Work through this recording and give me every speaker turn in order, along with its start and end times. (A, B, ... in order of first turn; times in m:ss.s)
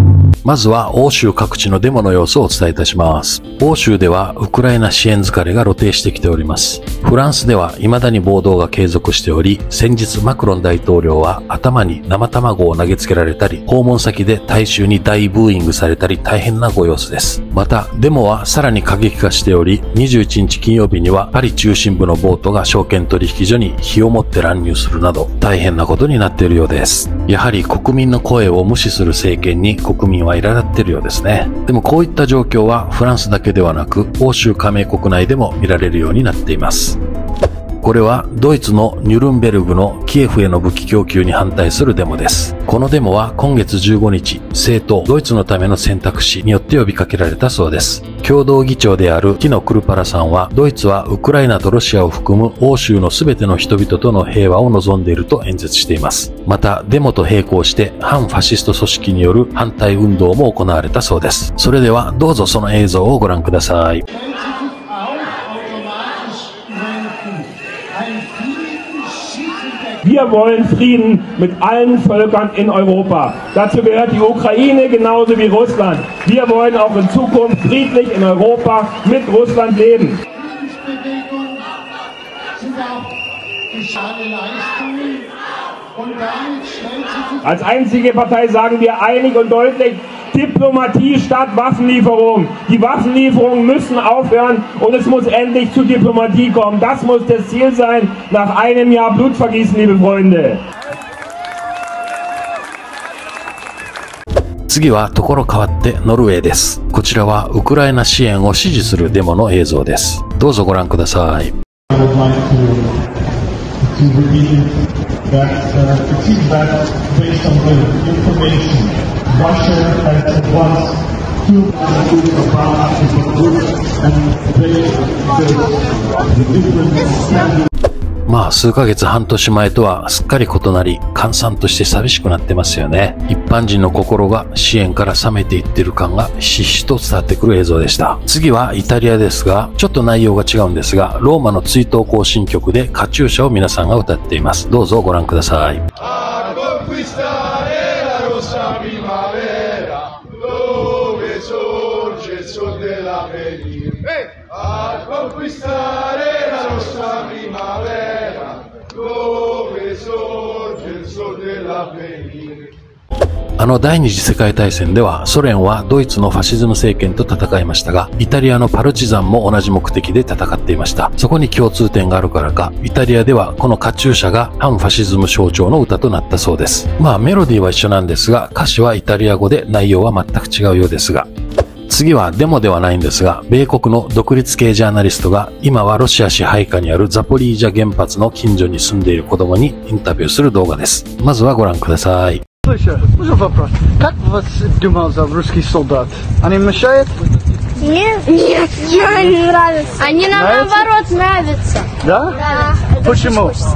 0:00.4-0:37.0 A
0:37.8-1:04.0 A
1:04.1-1:10.1 B
1:10.0-1:20.2 C
1:20.3-1:21.8 B
1:22.6-1:25.4 B
1:25.9-1:27.5 B
1:27.4-1:40.6 C
1:44.7-1:51.6 A
1:51.9-1:53.0 D
1:53.8-2:07.6 D
2:08.3-2:25.9 A
2:43.6-3:01.3 A
3:01.9-3:12.4 A
3:12.6-3:17.2 B
3:17.8-3:23.6 E
3:20.3-3:20.9 B
3:22.0-3:23.6 B